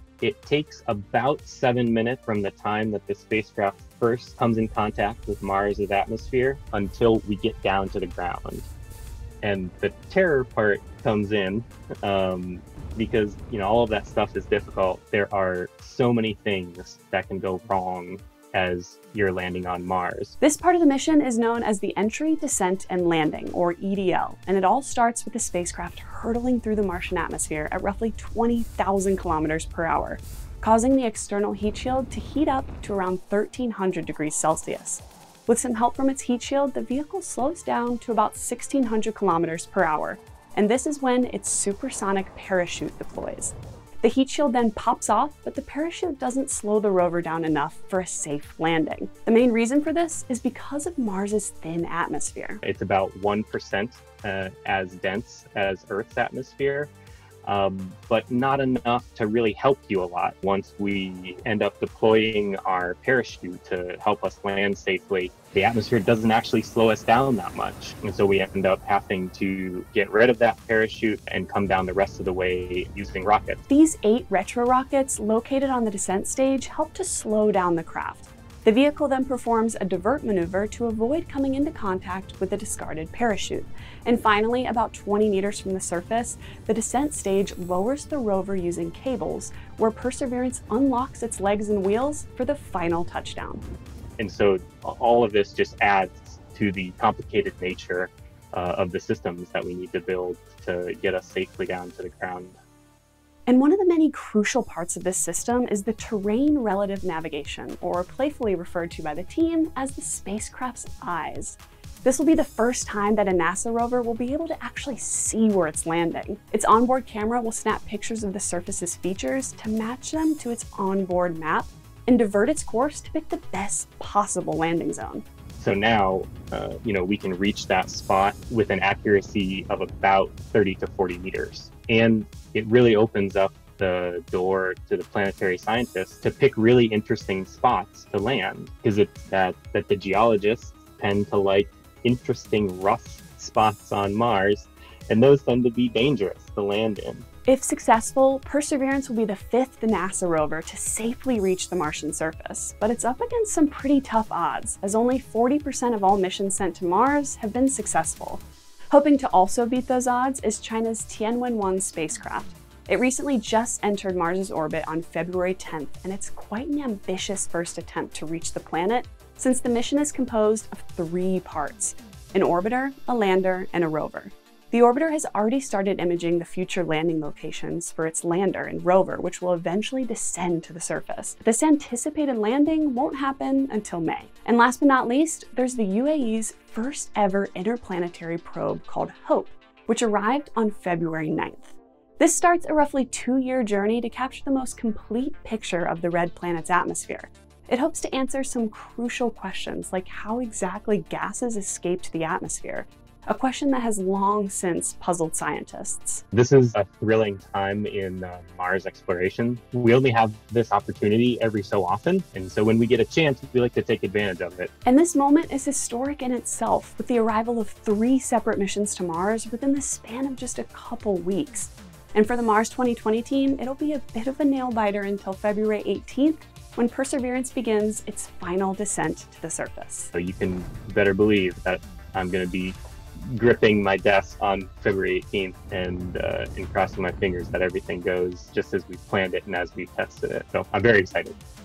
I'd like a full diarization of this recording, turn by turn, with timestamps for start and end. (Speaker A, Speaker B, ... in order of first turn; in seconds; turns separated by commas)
Speaker A: 0.2-8.7, Speaker A: 9.4-20.4, Speaker B: 20.4-52.6, Speaker A: 52.6-56.9, Speaker A: 57.4-73.6, Speaker B: 73.7-93.6, Speaker A: 94.2-102.5, Speaker B: 103.5-125.2, Speaker A: 125.6-147.2, Speaker B: 147.5-206.2, Speaker A: 206.3-214.7, Speaker B: 214.8-230.1, Speaker A: 230.1-241.4